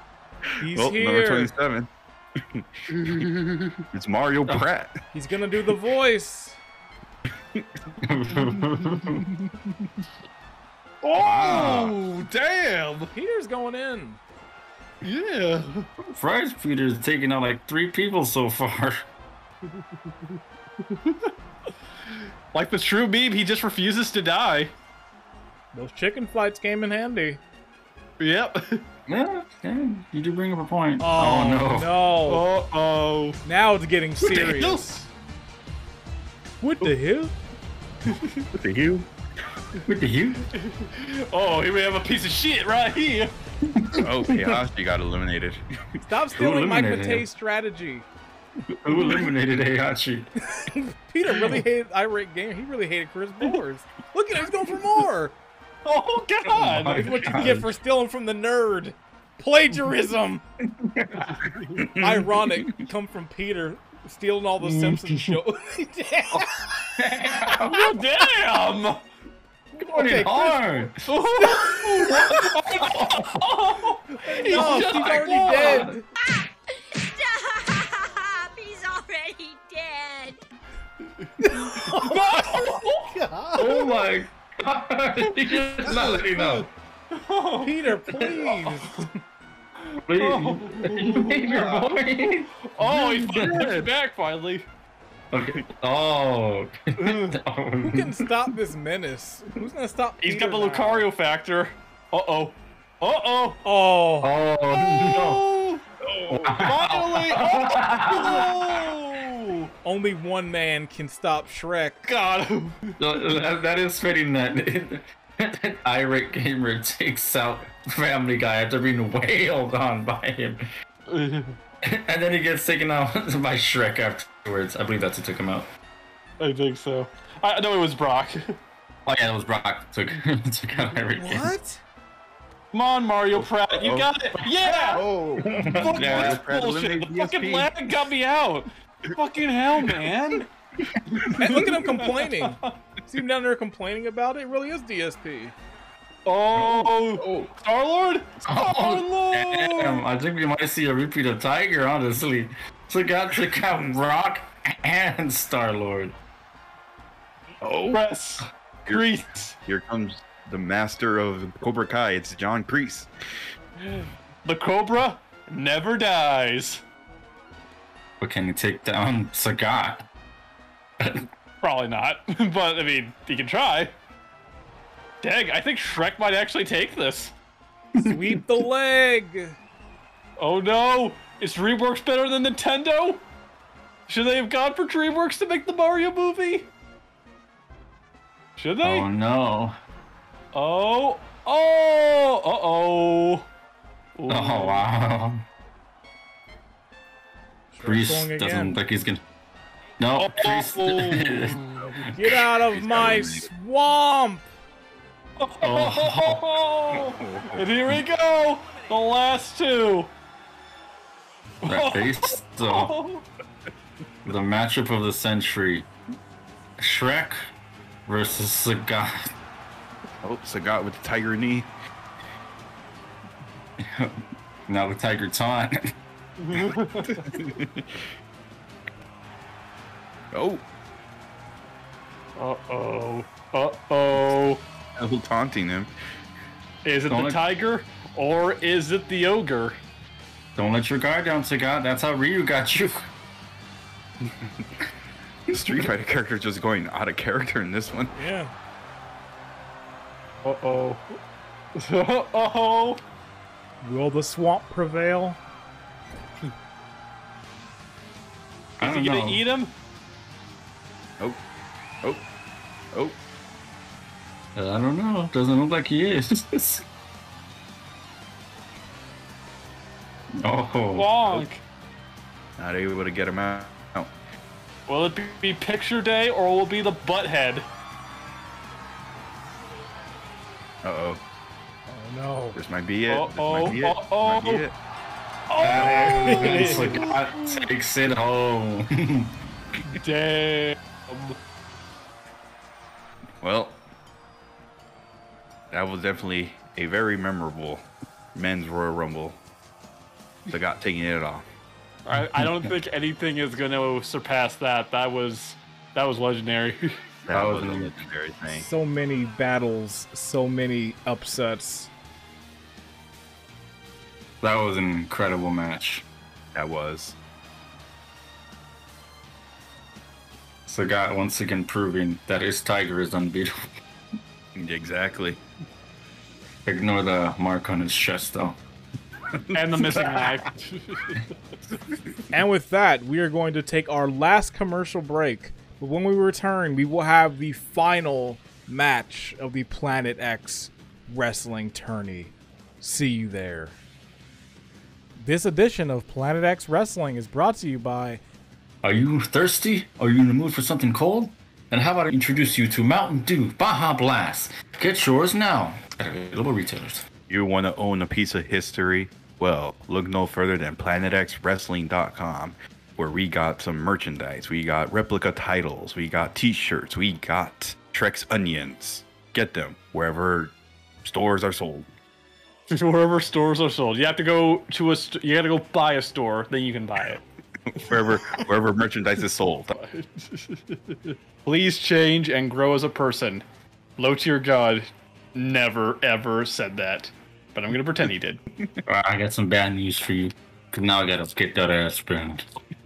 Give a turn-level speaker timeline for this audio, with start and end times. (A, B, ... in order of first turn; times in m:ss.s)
0:00.6-0:01.5 A
0:00.6-0:03.2 B
0:02.9-0:03.8 C
0:03.9-0:05.0 B
0:05.1-0:06.6 A
0:08.0-0:09.2 D
0:08.4-0:10.0 C
0:11.0-0:13.1 C
0:11.2-0:12.0 D
0:13.1-0:14.2 A
0:15.0-0:15.9 C
0:16.1-0:19.0 D
0:20.8-0:21.3 C
0:22.5-0:24.7 C
0:25.7-0:27.4 A
0:28.2-0:28.8 C
0:29.1-0:31.9 D
0:31.0-0:32.4 A
0:32.2-0:33.4 C
0:33.4-0:34.9 A
0:34.2-0:35.1 C
0:36.6-0:37.3 A
0:38.1-0:38.5 C
0:38.5-0:39.1 B
0:39.9-0:40.4 D
0:40.5-0:43.3 C
0:43.7-0:44.5 D
0:44.0-0:45.6 B
0:46.0-0:48.0 A
0:46.4-0:47.2 D
0:48.7-0:50.3 D
0:50.5-0:55.4 A
0:55.8-0:57.3 C
0:56.5-0:57.7 D
0:57.0-1:00.4 A
1:00.8-1:01.3 D
1:01.3-1:01.8 C
1:01.9-1:02.7 B
1:01.9-1:06.7 A
1:04.6-1:05.4 C
1:07.0-1:08.0 D
1:07.5-1:09.0 C
1:09.8-1:10.6 A
1:09.8-1:11.2 D
1:11.1-1:15.9 C
1:12.1-1:13.4 D
1:14.3-1:16.0 A
1:14.5-1:16.0 D
1:17.0-1:20.4 E
1:21.4-1:22.5 A
1:21.5-1:23.1 C
1:22.5-1:22.8 D
1:23.1-1:23.7 A
1:23.6-1:26.7 D
1:25.2-1:28.0 C
1:27.6-1:29.0 A
1:28.2-1:28.6 D
1:29.8-1:31.9 C
1:30.0-1:33.9 D
1:32.6-1:34.7 C
1:35.3-1:38.3 D
1:37.0-1:37.4 C
1:37.8-1:41.0 A
1:40.2-1:43.6 C
1:43.6-1:44.3 A
1:44.2-1:45.4 D
1:44.7-1:45.8 C
1:46.3-1:48.6 D
1:46.3-1:46.6 B
1:46.4-1:49.7 C
1:49.8-1:52.1 A
1:52.1-1:53.0 C
1:53.0-2:00.7 D
2:01.1-2:01.6 C
2:01.8-2:05.6 D
2:06.4-2:08.5 C
2:09.0-2:11.5 D
2:11.2-2:11.8 A
2:12.7-2:15.1 C
2:13.4-2:17.8 B
2:15.4-2:16.4 D
2:15.6-2:20.5 C
2:21.1-2:22.7 C
2:21.3-2:25.5 A
2:26.2-2:30.0 C
2:27.2-2:27.5 B
2:28.4-2:36.1 D
2:37.6-2:38.0 B
2:37.9-2:39.6 C
2:39.6-2:43.1 B
2:43.8-2:46.8 C
2:48.2-2:50.0 D
2:51.0-2:51.3 D
2:51.6-2:53.9 C
2:55.2-2:57.3 C
2:58.0-2:58.4 D
2:58.0-2:59.6 A
3:00.4-3:03.2 C
3:04.1-3:06.7 C
3:08.6-3:09.1 C
3:08.8-3:09.8 D
3:10.5-3:13.4 C
3:14.2-3:14.9 C
3:14.3-3:15.4 D
3:17.7-3:18.8 A
3:17.8-3:19.2 D
3:20.0-3:21.6 D
3:20.2-3:22.1 C
3:22.2-3:24.5 A
3:22.6-3:23.5 B
3:25.4-3:30.1 C
3:25.6-3:26.5 D
3:27.0-3:27.8 B
3:31.6-3:33.2 C
3:31.6-3:32.9 D
3:34.2-3:35.9 D
3:36.8-3:37.4 D
3:38.0-3:39.3 D
3:40.2-3:41.7 B
3:43.8-3:45.9 D
3:46.4-3:47.3 C
3:47.3-3:48.0 B
3:50.3-3:50.6 B
3:52.4-3:54.6 C
3:55.0-3:55.9 B
3:56.8-3:59.8 C
3:57.1-3:57.4 D
4:00.6-4:03.1 D
4:05.5-4:08.1 B
4:08.2-4:08.5 A
4:10.4-4:11.2 C
4:11.8-4:13.0 C
4:13.8-4:15.4 A
4:18.8-4:19.4 D
4:18.8-4:19.7 C
4:24.6-4:26.8 D
4:30.4-4:31.1 D
4:31.0-4:31.6 C
4:32.6-4:34.1 B
4:34.9-4:37.6 C
4:40.8-4:41.2 B
4:41.9-4:42.6 A
4:42.5-4:44.7 B
4:43.1-4:44.6 C
4:45.5-4:47.6 C
4:45.6-4:49.4 D
4:45.6-4:46.0 B
4:45.8-4:47.0 A
4:49.9-4:51.4 C
4:53.4-4:53.8 B
4:55.7-4:59.4 B
5:00.5-5:01.4 B
5:02.0-5:06.9 C
5:07.3-5:08.7 B
5:07.3-5:07.9 D
5:08.5-5:11.9 A
5:14.4-5:16.0 D
5:16.5-5:17.2 B
5:20.7-5:23.5 D
5:24.6-5:25.4 B
5:26.6-5:28.6 D
5:29.4-5:30.0 B
5:29.5-5:31.2 C
5:32.3-5:43.8 A
5:45.2-5:48.2 A
5:48.8-5:57.0 D
5:57.3-6:11.9 B
6:12.7-6:17.2 C
6:17.7-6:19.7 B
6:17.9-6:18.4 C
6:19.7-6:23.4 C
6:24.0-6:28.4 C
6:28.9-6:32.4 D